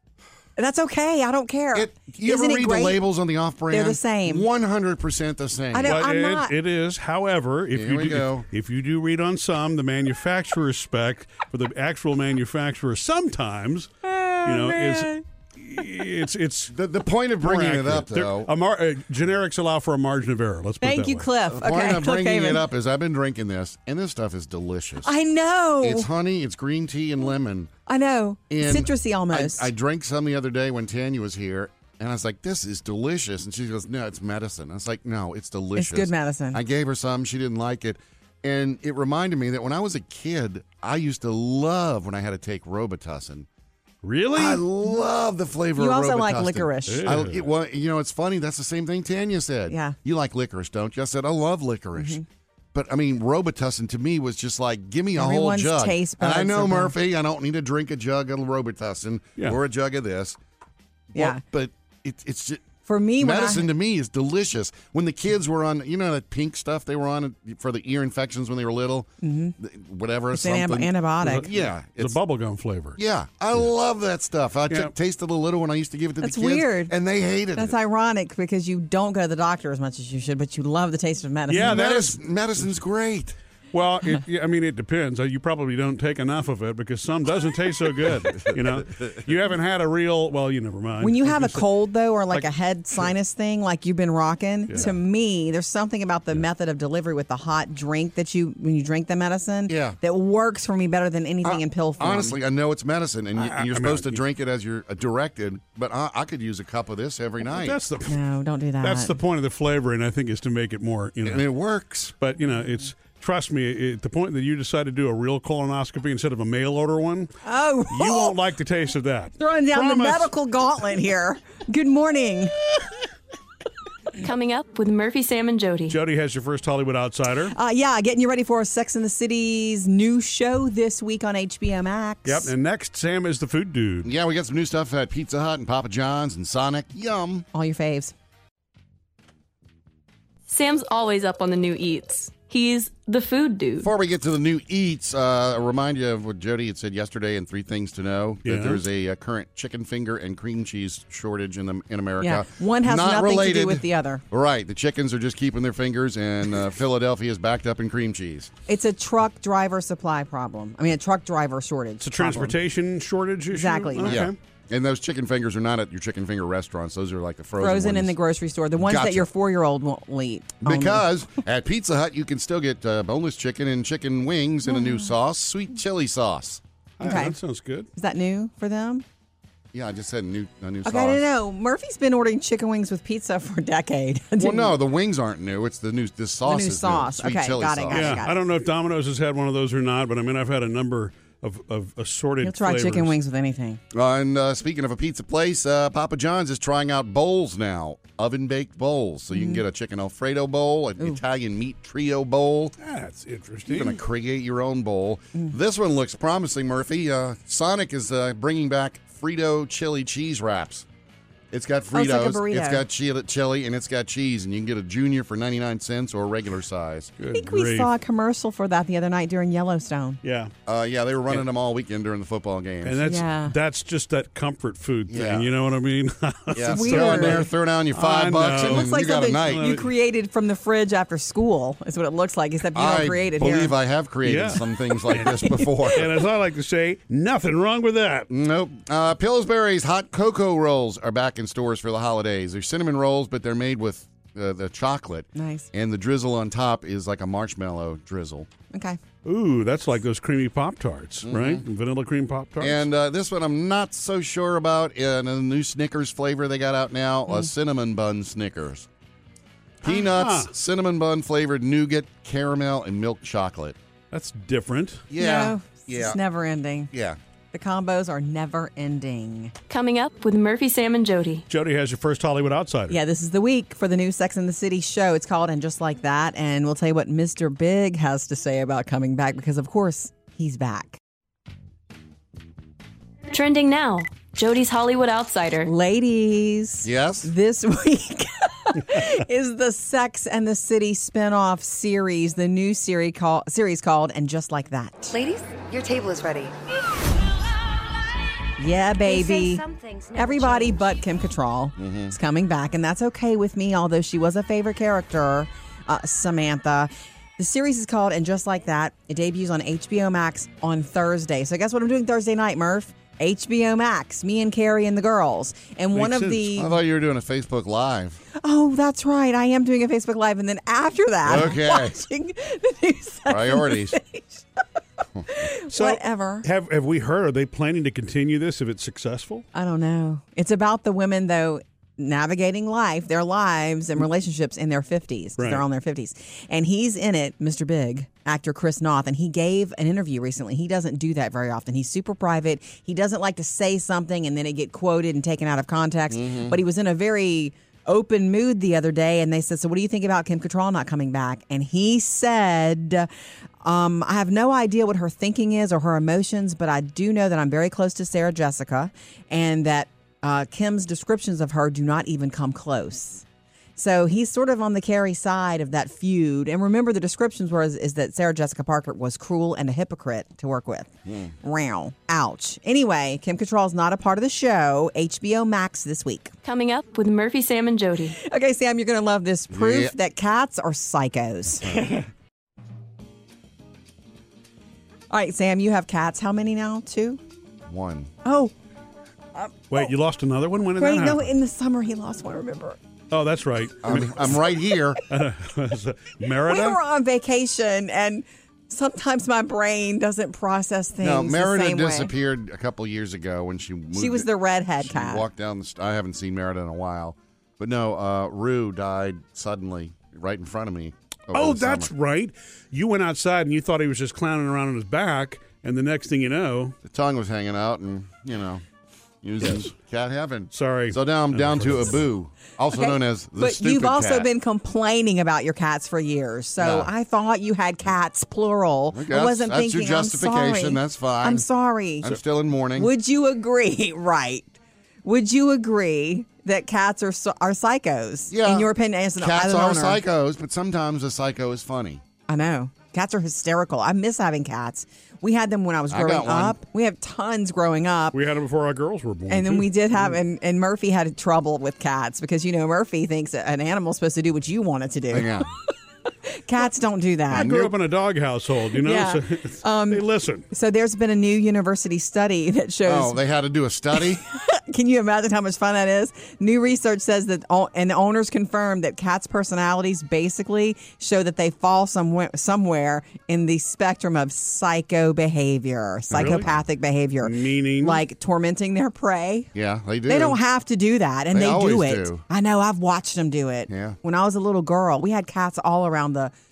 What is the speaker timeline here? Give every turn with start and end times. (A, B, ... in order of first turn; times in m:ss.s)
0:00.6-0:03.0 A
0:01.7-0:06.0 B
0:03.7-0:04.4 A
0:05.7-0:06.5 A
0:05.8-0:13.9 C
0:07.7-0:08.4 B
0:14.0-0:15.2 A
0:14.4-0:16.7 C
0:16.7-0:18.5 B
0:17.4-0:21.3 C
0:20.8-0:22.6 A
0:21.5-0:25.1 B
0:25.0-0:26.1 A
0:25.8-0:27.7 B
0:27.9-0:29.7 A
0:28.5-0:43.5 B
0:35.8-0:36.6 A
0:44.0-0:44.6 C
0:44.3-0:52.2 B
0:45.8-0:47.1 A
0:46.9-0:47.5 C
0:49.7-0:50.0 A
0:52.0-0:52.2 A
0:52.7-1:00.4 B
0:55.1-0:56.9 A
1:01.1-1:02.7 B
1:01.1-1:01.4 A
1:02.8-1:03.7 A
1:03.2-1:12.2 B
1:09.2-1:09.5 A
1:10.3-1:11.5 A
1:11.2-1:13.0 C
1:13.0-1:17.8 B
1:16.2-1:16.9 A
1:17.5-1:21.9 A
1:21.5-1:22.1 C
1:21.6-1:23.4 B
1:23.7-1:31.6 C
1:28.4-1:29.2 B
1:31.0-1:42.4 A
1:39.7-1:40.0 B
1:41.4-1:47.8 B
1:43.4-1:44.2 C
1:47.4-1:48.2 C
1:48.0-1:49.1 A
1:48.8-1:51.4 C
1:51.2-1:52.2 B
1:52.2-1:57.3 C
1:57.4-1:58.3 A
1:57.9-2:00.3 C
1:59.4-2:02.6 A
2:04.2-2:06.0 D
2:05.9-2:07.5 C
2:07.5-2:12.5 A
2:12.2-2:14.1 C
2:14.0-2:17.4 B
2:17.5-2:18.1 A
2:20.5-2:23.9 D
2:23.8-2:38.5 B
2:28.4-2:28.8 C
2:32.2-2:34.2 A
2:38.7-2:42.6 A
2:42.0-2:44.4 C
2:43.5-2:44.2 A
2:44.0-2:48.1 B
2:47.6-2:51.0 A
2:48.8-2:49.3 B
2:50.6-2:56.6 B
2:54.7-2:55.1 A
2:57.0-2:57.9 C
2:57.0-2:57.4 A
2:58.0-2:59.0 A
2:59.7-3:01.2 B
3:00.8-3:04.8 A
3:04.4-3:08.2 B
3:06.4-3:08.3 A
3:07.9-3:13.1 C
3:12.4-3:13.8 A
3:13.9-3:22.8 B
3:19.3-3:19.6 A
3:22.8-3:24.0 C
3:23.6-3:30.8 B
3:31.5-3:37.1 B
3:31.9-3:32.8 A
3:37.2-3:37.9 C
3:37.3-3:40.2 A
3:40.2-3:40.5 C
3:40.6-3:43.0 B
3:42.8-3:49.9 C
3:43.0-3:43.5 A
3:45.1-3:45.5 B
3:46.5-3:49.6 B
3:46.6-3:47.5 A
3:48.6-3:53.7 A
3:52.7-3:56.2 B
3:54.2-3:58.3 C
3:58.3-4:08.5 B
4:05.3-4:05.7 A
4:08.7-4:09.0 A
4:09.2-4:12.8 C
4:11.2-4:11.6 B
4:12.6-4:18.9 B
4:19.8-4:23.8 B
4:19.9-4:20.5 C
4:24.1-4:25.0 C
4:25.1-4:26.2 B
4:25.2-4:26.9 A
4:26.9-4:27.2 B
4:27.5-4:29.5 A
4:29.7-4:31.5 D
4:31.5-4:33.0 C
4:32.9-4:41.0 A
4:43.3-4:45.7 D
4:45.6-4:55.2 A
4:46.8-4:47.3 B
4:55.3-4:56.4 E
4:58.6-5:16.7 A
4:59.2-5:00.0 E
5:01.8-5:02.1 B
5:15.9-5:16.6 C
5:16.5-5:18.2 B
5:18.4-5:24.4 A
5:21.2-5:22.0 B
5:23.3-5:24.0 B
5:25.2-5:25.4 B
5:25.3-5:26.4 A
5:25.7-5:29.4 C
5:29.5-5:53.1 A
5:35.4-5:35.6 C
5:46.1-5:46.6 B
5:53.6-6:03.2 A
6:03.8-6:16.3 A
6:11.0-6:11.3 B
6:16.4-6:18.2 D
6:18.2-6:22.0 A
6:19.5-6:19.9 B
6:25.1-6:27.2 A
6:27.7-6:28.1 B
6:28.2-6:28.5 A
6:29.4-6:29.9 A
6:29.7-6:31.3 C
6:30.8-6:32.8 A
6:33.1-6:34.3 C
6:33.8-6:35.0 B
6:35.1-6:36.8 C
6:36.5-6:42.1 A
6:41.0-6:51.9 B
6:43.9-6:45.2 A
6:51.3-6:56.8 C
6:56.8-6:58.6 B
6:59.2-7:04.3 B
6:59.4-6:59.7 C
7:00.5-7:02.0 C
7:02.7-7:12.1 A
7:06.6-7:06.9 B
7:08.9-7:11.4 B
7:12.0-7:12.9 B
7:12.8-7:20.0 A
7:18.3-7:22.0 B
7:22.3-7:28.2 A
7:25.9-7:26.6 B
7:28.1-7:30.2 C
7:29.3-7:35.4 A
7:35.1-7:35.5 B
7:36.3-7:37.5 A
7:37.3-7:40.4 C
7:37.3-7:37.7 B
7:38.8-7:43.2 A
7:42.8-7:44.2 B
7:43.9-7:59.5 A
7:56.1-7:56.6 B
7:56.1-7:56.4 C
7:57.2-7:58.0 C
7:59.5-8:00.4 B
8:00.0-8:06.3 A
8:01.3-8:02.2 B
8:03.7-8:04.0 B